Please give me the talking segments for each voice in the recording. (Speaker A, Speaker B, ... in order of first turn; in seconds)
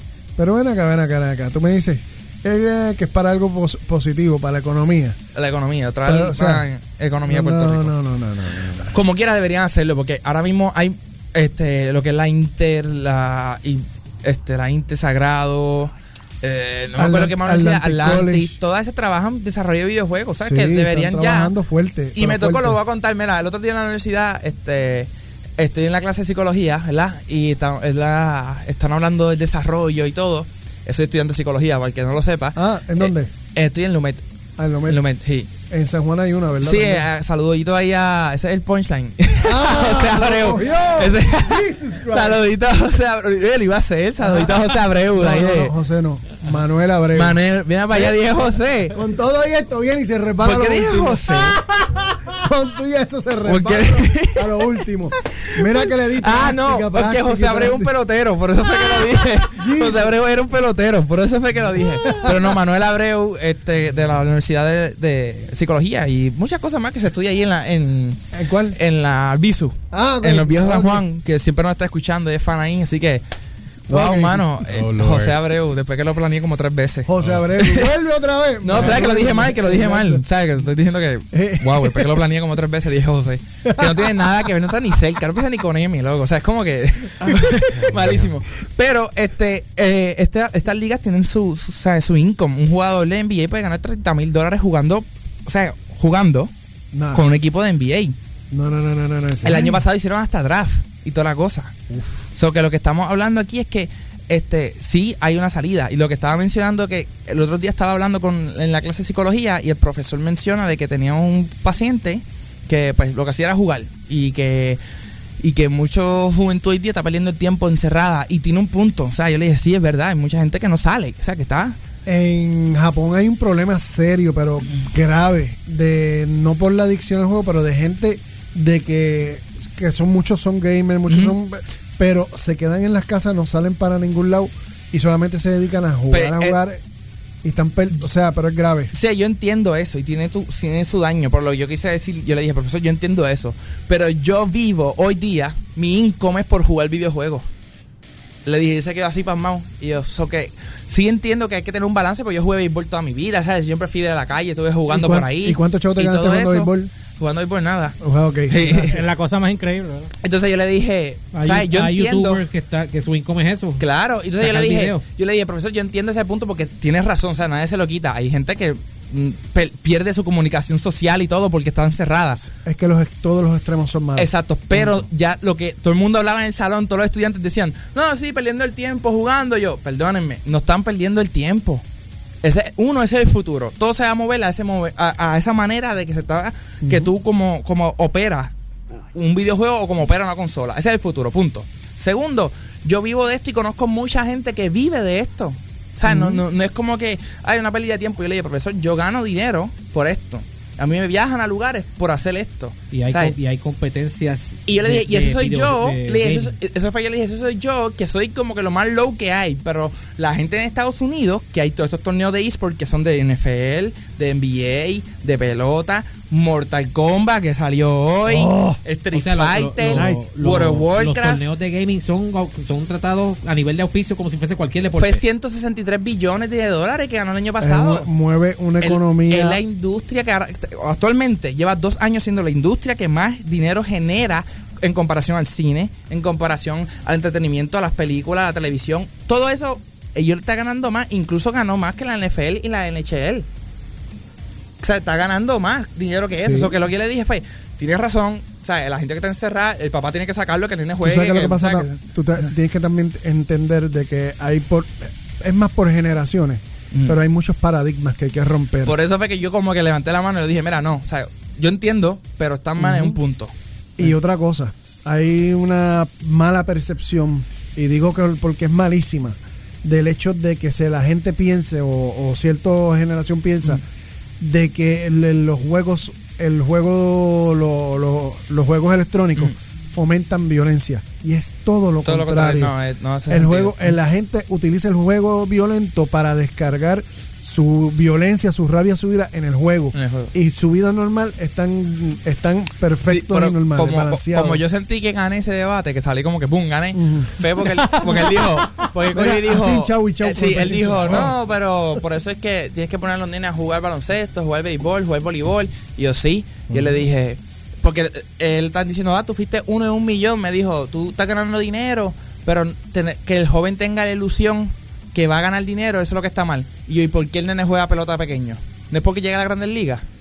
Speaker A: 0.3-5.2, 6.1-6.7, 7.2-9.0, 16.9-18.6, 20.4-22.8, 32.6-33.3, 34.6-35.0, 35.7-37.1, 39.4-42.4, 44.2-47.4, 48.9-51.6, 52.3-57.9, 59.0-60.1, 62.0-62.6, 68.3-68.8, 69.9-71.0, 73.9-74.5, 77.1-80.2, 81.3-82.2, 83.6-84.3, 87.2-88.1, 96.9-97.2, 98.5-99.8, 122.1-136.8, 137.4-138.9, 154.9-156.9, 158.0-158.9, 172.5-175.0, 186.8-187.1, 196.1-196.4, 218.2-218.8, 219.9-220.3, 227.6-229.6, 246.3-246.8, 251.0-258.9, 262.8-263.2, 264.0-273.8, 274.4-282.7, 283.3-294.6, 296.9-297.3, 299.1-301.4
Speaker B: 5.3-7.9, 8.9-21.5, 22.1-34.2, 34.9-35.5, 36.6-45.7, 47.1-48.9, 50.4-51.6, 53.4-54.6, 55.2-68.2, 68.7-73.2, 73.9-77.9, 78.6-96.5, 97.1-98.1, 99.4-101.8, 102.3-114.8, 115.4-121.8, 131.1-131.3, 136.1-136.6, 138.9-147.4, 148.4-158.0, 158.5-159.0, 160.2-162.4, 163.8-172.4, 174.2-181.8, 182.4-203.3, 204.7-221.4, 224.9-228.1, 228.8-243.4, 244.8-251.9, 256.9-257.2, 258.8-263.5, 282.0-283.9, 289.9-290.3, 293.1-320.0
Speaker C: 74.7-75.4, 78.8-79.0, 158.7-160.1, 297.6-298.9
Speaker D: 161.3-163.8, 164.3-165.0, 202.9-206.6, 219.1-225.2